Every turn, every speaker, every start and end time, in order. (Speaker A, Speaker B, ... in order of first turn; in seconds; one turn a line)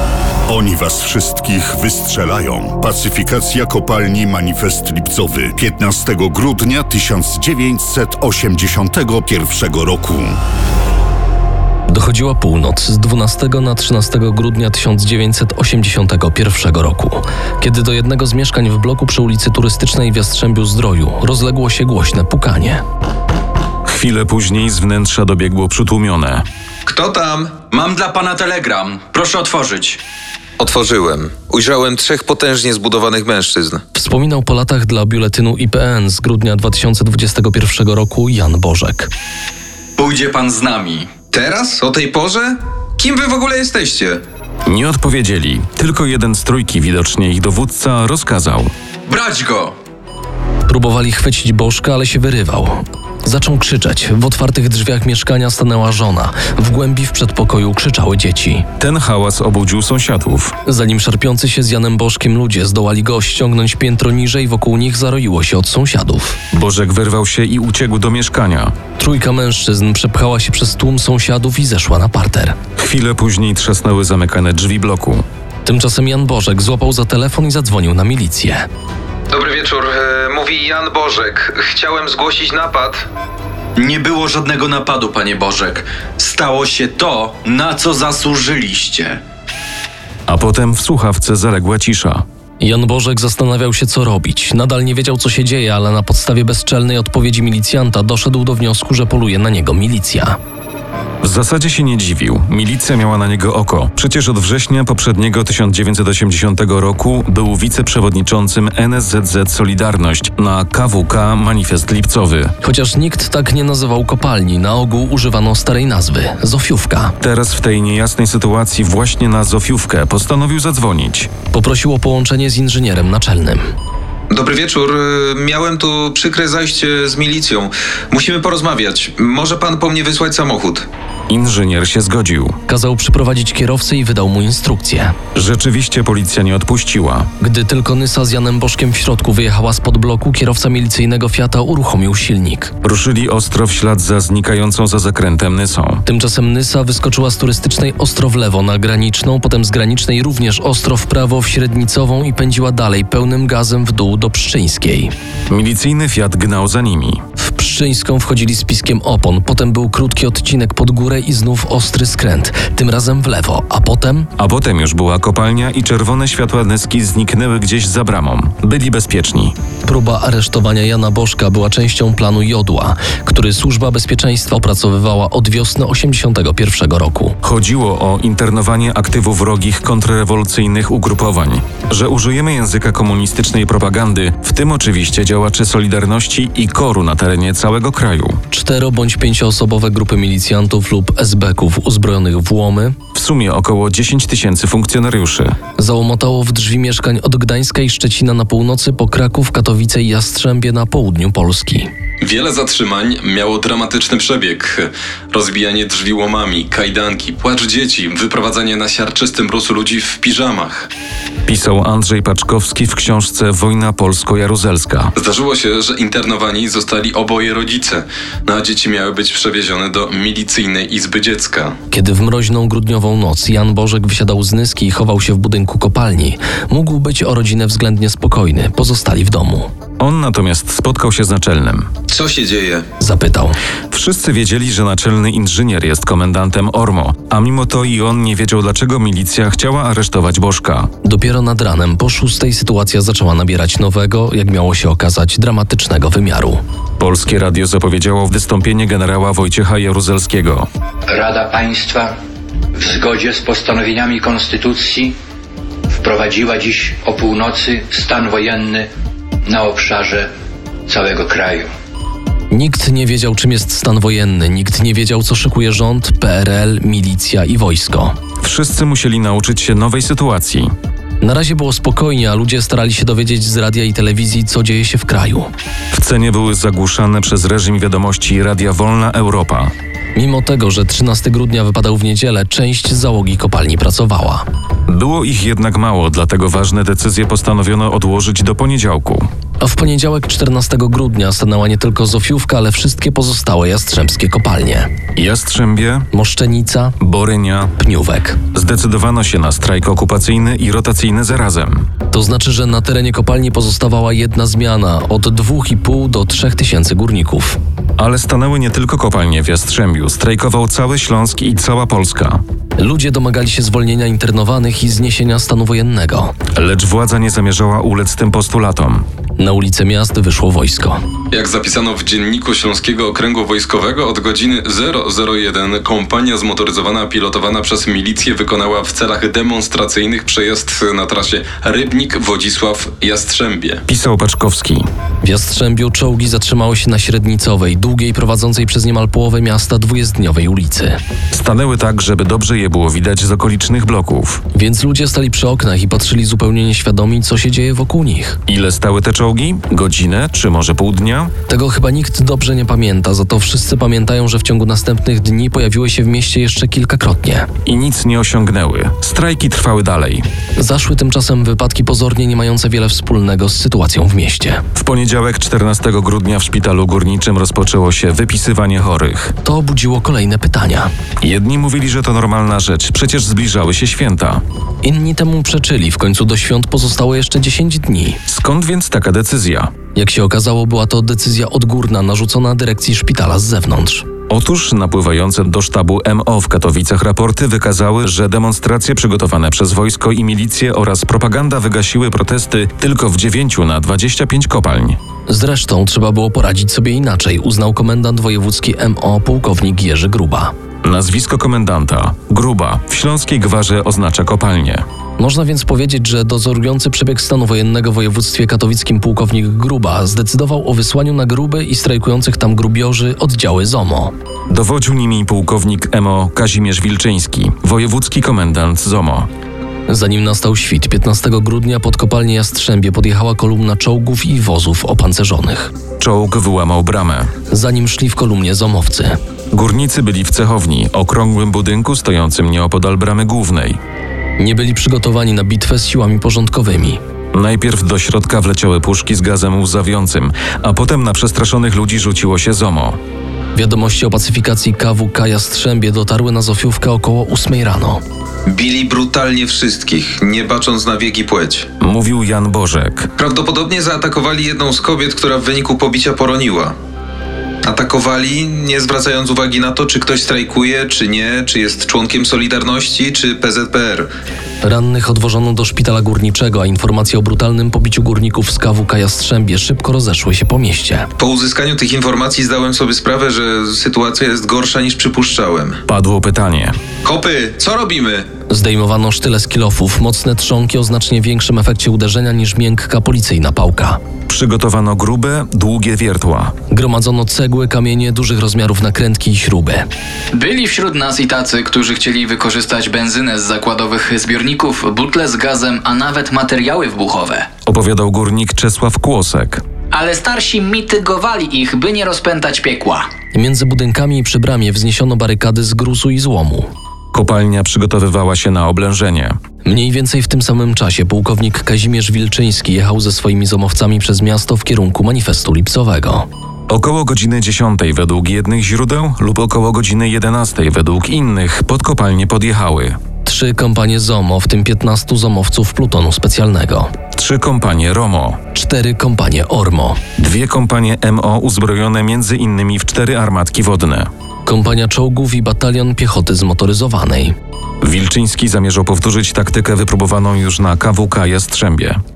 Speaker A: 0.5-10.4
Speaker B: 11.9-22.8
Speaker C: 23.9-26.4
Speaker D: 26.9-27.6
Speaker E: 27.7-30.0
Speaker D: 30.6-33.8
Speaker B: 33.9-39.1
Speaker E: 40.0-41.1
Speaker D: 41.3-44.2
Speaker C: 44.6-48.7
Speaker E: 49.1-49.8
Speaker B: 50.7-58.7
Speaker C: 58.8-60.5
Speaker B: 60.7-66.4
Speaker C: 66.5-68.7
Speaker B: 69.0-72.6
Speaker C: 72.8-75.2
Speaker B: 75.7-78.7
Speaker D: 79.3-83.0
Speaker E: 83.8-89.2
Speaker C: 90.3-92.2
Speaker B: 92.6-100.4
Speaker C: 101.2-112.5
Speaker B: 112.6-117.2
Speaker C: 117.2-121.3
Speaker B: 121.5-123.7
Speaker D: 124.3-130.8
Speaker C: 131.3-132.6
Speaker B: 132.7-135.2
Speaker C: 135.3-137.3
Speaker B: 137.4-142.7
Speaker C: 142.8-146.0
Speaker B: 146.1-155.1
Speaker C: 155.5-157.2
Speaker B: 157.4-164.3
Speaker C: 164.4-169.5
Speaker B: 169.8-177.4
Speaker C: 177.4-188.4
Speaker B: 188.5-193.0
Speaker C: 193.2-195.6
Speaker B: 195.8-201.9
Speaker F: 202.2-210.9
Speaker C: 211.5-215.1
Speaker F: 215.2-221.8
Speaker B: 221.9-229.7
Speaker C: 230.0-231.9
Speaker D: 232.1-232.8
Speaker B: 233.0-233.6
Speaker C: 233.9-240.9
Speaker B: 241.0-246.6
Speaker C: 247.0-250.7
Speaker G: 251.1-252.1
Speaker G: 252.8-255.1
Speaker G: 256.0-258.8
Speaker G: 259.5-260.2
Speaker G: 260.9-261.6
Speaker B: 262.5-268.1
Speaker C: 268.4-270.7
Speaker B: 271.2-275.5
Speaker C: 275.9-279.7
Speaker B: 280.1-284.4
Speaker C: 284.9-289.3
Speaker B: 289.6-294.9
Speaker C: 295.2-296.1
Speaker B: 296.1-297.0
Speaker C: 297.0-297.7
Speaker B: 297.8-298.4
Speaker C: 298.5-301.9
Speaker B: 302.1-307.6
Speaker C: 308.0-312.4
Speaker B: 312.8-316.3
Speaker C: 316.6-319.1
Speaker B: 319.4-321.0
Speaker F: 321.3-333.8
Speaker C: 333.9-334.9
Speaker B: 335.2-341.0
Speaker C: 341.3-344.4
Speaker B: 344.5-348.4
Speaker C: 348.5-351.3
Speaker B: 351.5-357.5
Speaker C: 357.6-360.3
Speaker B: 360.6-364.6
Speaker C: 364.8-369.3
Speaker B: 369.4-370.9
Speaker C: 371.2-374.4
Speaker B: 374.8-378.2
Speaker C: 378.3-379.7
Speaker B: 379.9-384.1
Speaker C: 384.3-395.0
Speaker B: 395.3-400.5
Speaker C: 400.8-404.8
Speaker B: 405.2-414.1
Speaker C: 414.5-419.3
Speaker B: 419.9-425.7
Speaker C: 426.0-427.3
Speaker B: 427.5-429.2
Speaker C: 429.5-433.8
Speaker B: 434.4-437.0
Speaker C: 437.3-443.0
Speaker B: 443.6-448.0
Speaker D: 448.5-451.7
Speaker C: 451.8-453.1
Speaker D: 453.2-456.8
Speaker D: 457.6-464.1
Speaker B: 464.6-471.1
Speaker D: 471.2-475.8
Speaker C: 475.9-476.8
Speaker D: 477.1-478.3
Speaker B: 478.5-484.0
Speaker C: 484.3-486.5
Speaker B: 486.7-489.9
Speaker H: 490.3-497.5
Speaker C: 497.7-499.6
Speaker H: 499.9-503.1
Speaker B: 503.3-506.7
Speaker C: 507.1-509.4
Speaker B: 509.6-516.3
Speaker C: 516.7-523.0
Speaker B: 523.2-526.9
Speaker C: 527.2-528.4
Speaker B: 528.5-530.0
Speaker C: 530.2-534.1
Speaker B: 534.5-537.4
Speaker C: 537.8-542.0